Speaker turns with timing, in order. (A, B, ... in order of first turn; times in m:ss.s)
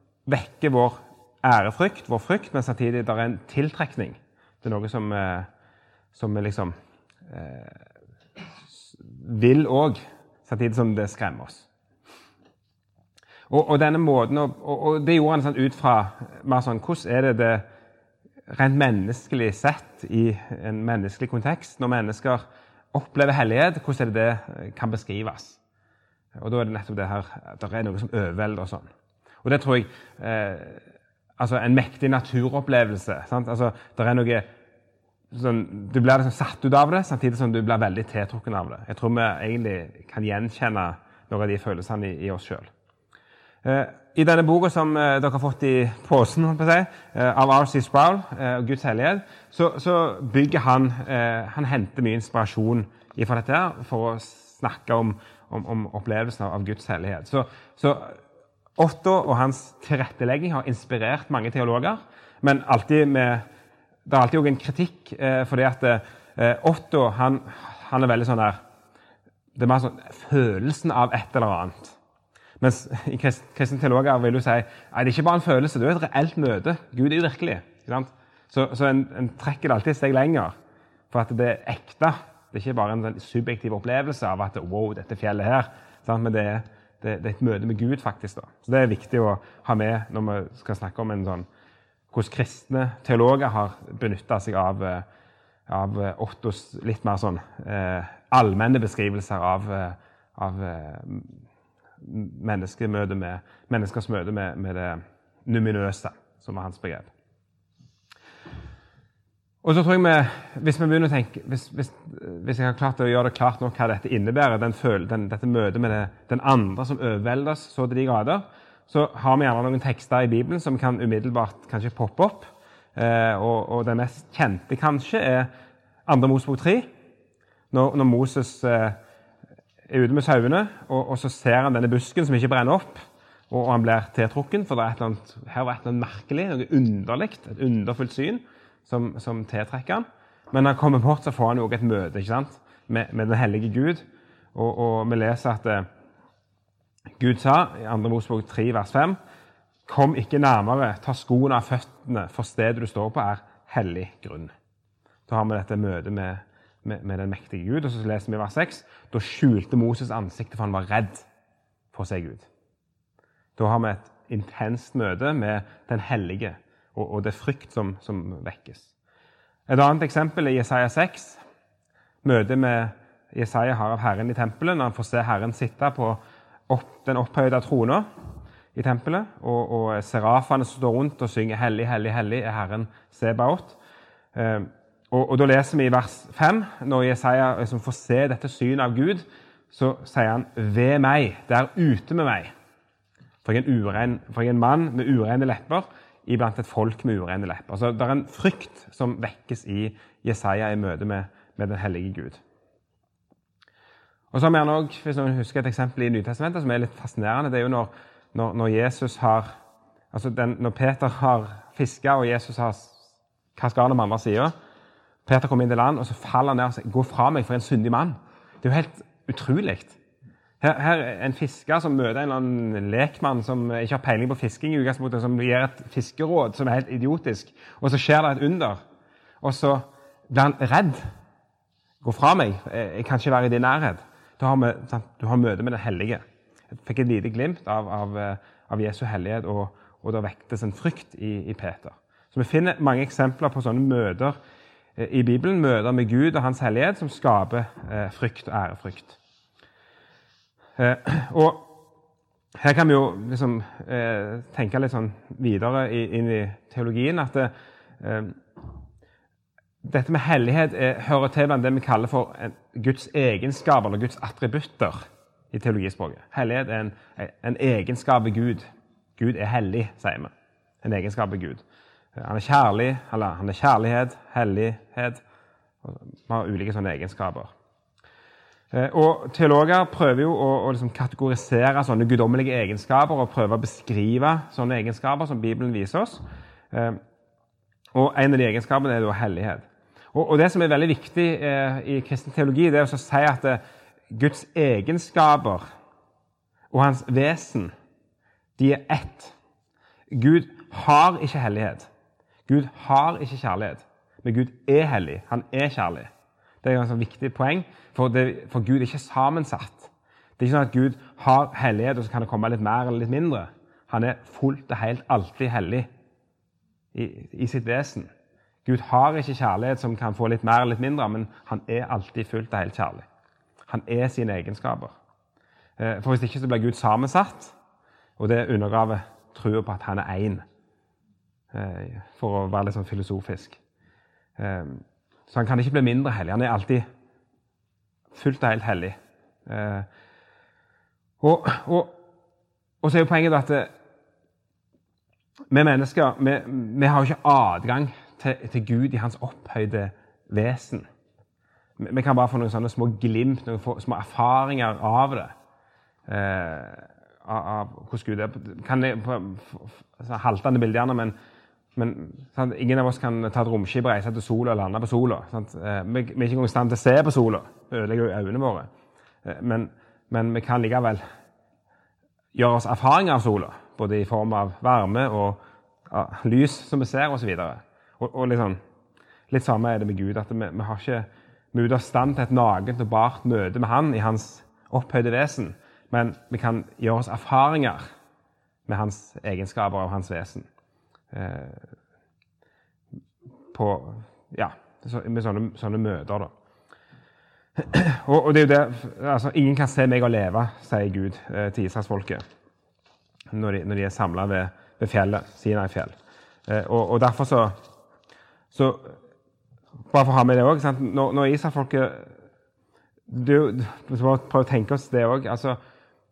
0:00.2-0:05.5 A
0:06.1-0:06.7 A
0:07.3-0:07.8 A
0:08.7-0:11.7 A
0:13.5-0:17.6 A
0:18.5-0:22.4 A
0:22.9-0:25.6 A
0:26.4-0:28.9 A
0:29.4-0:30.8 A
0:31.4-0:34.5 A
0:35.3-0:42.7 A
0:43.6-0:58.2 A
0:58.8-1:03.4 A
1:04.1-1:08.6 A
1:09.5-1:12.0 A
1:12.6-1:20.5 A
1:21.1-1:31.4 A
1:32.1-1:35.0 A
1:35.7-1:41.3 A
1:42.0-1:47.1 A
1:49.6-2:05.5 A
2:06.0-2:06.9 A
2:07.7-2:09.0 A
2:09.9-2:24.0 A
2:24.5-2:25.8 A
2:27.2-2:29.2 A
2:29.9-2:34.5 A
2:35.3-2:41.3 A
2:41.9-2:42.5 A
2:43.6-2:48.9 A
2:49.7-2:51.4 A
2:52.2-2:58.1 A
2:58.7-3:03.8 A
3:04.3-3:12.5 A
3:13.4-3:22.4 A
3:24.3-3:29.5 A
3:30.1-3:34.5 A
3:35.2-3:40.0 A
3:40.6-3:48.8 A
3:49.4-3:51.0 A
3:52.0-3:56.2 A
3:56.8-4:04.4 A
4:05.0-4:09.2 A
4:10.8-4:11.7 A
4:12.6-4:18.4 A
4:19.8-4:25.0 A
4:25.5-4:28.6 A
4:29.2-4:30.3 A
4:30.8-4:31.6 A
4:32.1-4:35.2 A
4:35.8-4:37.5 A
4:38.7-4:47.0 A
4:47.9-4:55.6 A
4:56.7-4:57.7 A
4:58.6-4:59.3 A
5:00.1-5:01.9 A
5:02.5-5:06.1 A
5:06.6-5:15.9 A
5:16.9-5:18.1 A
5:18.6-5:23.0 A
5:23.7-5:24.9 A
5:25.8-5:27.5 A
5:28.2-5:30.4 A
5:31.5-5:33.6 A
5:34.4-5:36.8 A
5:38.1-5:39.0 A
5:39.5-5:39.9 A
5:41.2-5:42.0 A
5:42.8-5:43.7 A
5:45.5-5:50.9 A
5:51.8-5:55.3 A
5:56.1-6:01.1 A
6:01.8-6:08.7 A
6:09.2-6:11.0 A
6:12.3-6:15.4 A
6:15.9-6:18.6 A
6:19.3-6:27.8 A
6:28.7-6:30.5 A
6:31.1-6:31.7 A
6:33.5-6:36.3 A
6:37.6-6:42.2 A
6:43.3-6:45.9 A
6:46.5-6:47.6 A
6:48.5-6:49.0 A
6:49.9-6:52.1 A
6:53.1-6:55.6 A